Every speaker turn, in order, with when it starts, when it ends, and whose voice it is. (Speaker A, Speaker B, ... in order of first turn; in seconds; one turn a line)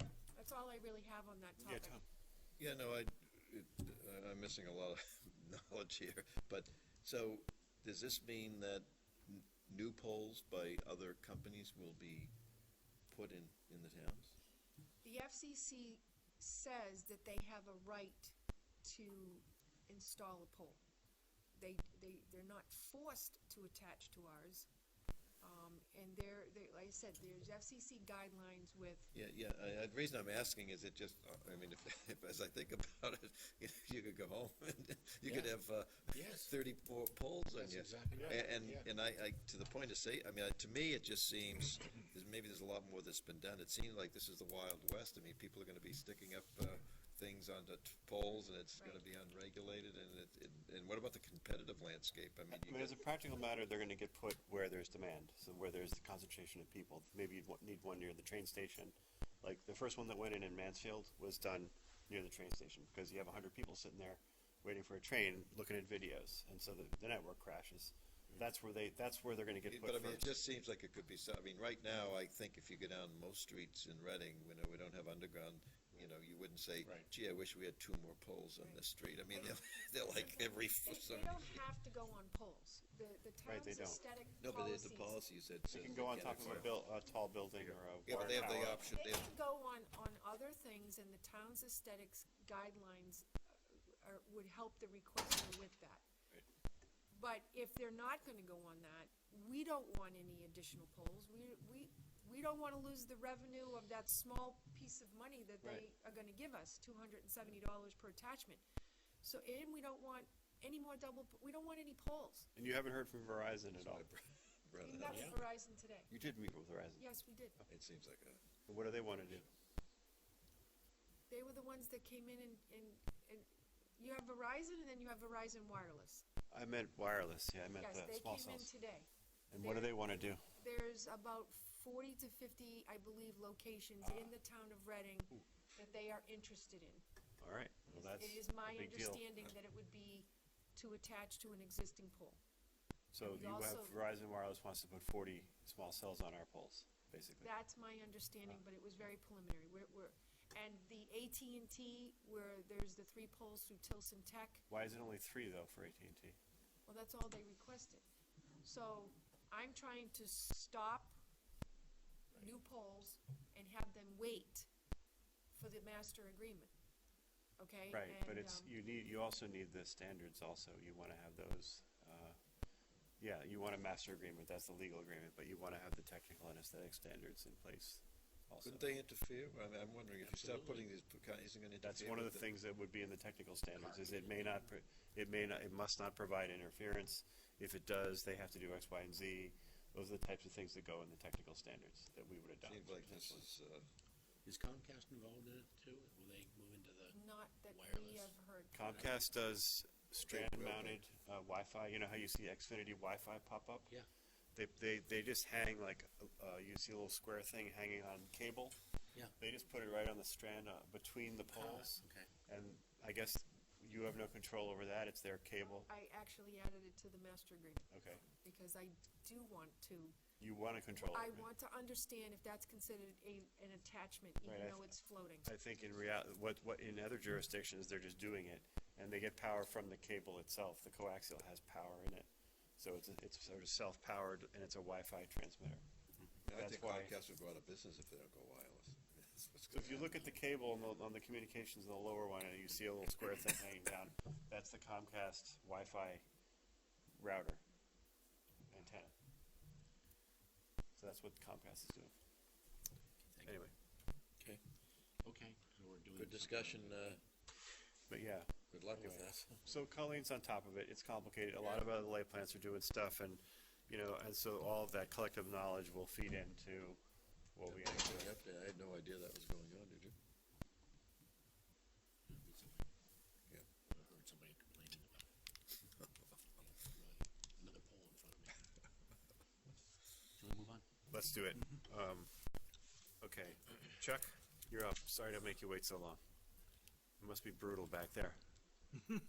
Speaker A: 0.3-2.0
Speaker B: 1.6-2.0
Speaker C: 2.6-12.3
Speaker C: 13.1-14.3
Speaker A: 15.0-20.8
Speaker A: 21.5-24.7
Speaker A: 25.4-29.1
Speaker C: 29.1-53.0
Speaker D: 35.2-35.5
Speaker D: 36.1-36.6
Speaker D: 37.5-38.9
Speaker A: 48.8-49.0
Speaker B: 52.5-70.3
Speaker C: 69.7-81.6
Speaker A: 78.6-85.2
Speaker B: 83.4-84.0
Speaker C: 84.4-86.7
Speaker B: 85.7-88.8
Speaker C: 88.0-89.3
Speaker A: 88.2-96.0
Speaker A: 97.1-108.6
Speaker A: 109.2-112.5
Speaker B: 112.5-114.0
Speaker C: 113.8-115.4
Speaker A: 114.8-116.1
Speaker D: 115.0-115.4
Speaker B: 116.1-117.0
Speaker A: 117.0-117.6
Speaker C: 117.7-118.4
Speaker B: 118.7-119.4
Speaker A: 121.3-126.2
Speaker B: 126.5-128.7
Speaker A: 127.8-129.1
Speaker B: 129.5-130.4
Speaker A: 129.6-137.0
Speaker B: 134.0-134.3
Speaker B: 137.4-139.2
Speaker A: 137.9-142.4
Speaker B: 143.1-147.5
Speaker A: 143.2-143.9
Speaker A: 147.4-154.6
Speaker B: 154.7-156.4
Speaker A: 156.8-158.0
Speaker A: 158.6-161.2
Speaker A: 162.3-164.7
Speaker A: 165.5-166.7
Speaker A: 167.6-168.7
Speaker B: 167.9-172.4
Speaker B: 173.2-178.9
Speaker C: 178.6-182.4
Speaker D: 180.2-180.9
Speaker B: 181.8-193.4
Speaker D: 183.8-184.6
Speaker C: 192.6-193.9
Speaker D: 194.4-198.3
Speaker A: 197.1-199.2
Speaker B: 198.7-203.9
Speaker C: 200.2-201.0
Speaker B: 204.5-208.8
Speaker B: 209.4-215.9
Speaker D: 211.5-212.3
Speaker A: 215.6-220.2
Speaker B: 217.9-218.2
Speaker B: 220.4-221.5
Speaker A: 221.1-225.5
Speaker B: 224.4-235.8
Speaker C: 236.4-240.2
Speaker B: 236.5-237.1
Speaker B: 239.7-246.2
Speaker B: 247.1-247.6
Speaker B: 248.7-249.1
Speaker B: 250.9-252.2
Speaker D: 253.3-253.5
Speaker B: 253.4-253.7
Speaker D: 255.2-257.2
Speaker C: 256.1-257.2
Speaker B: 258.1-267.0
Speaker C: 258.7-259.6
Speaker B: 267.5-268.4
Speaker C: 267.7-270.1
Speaker D: 272.3-272.9
Speaker D: 273.9-275.3
Speaker D: 276.6-278.6
Speaker D: 280.4-280.8
Speaker B: 281.1-282.3
Speaker B: 283.2-286.2
Speaker B: 287.2-288.4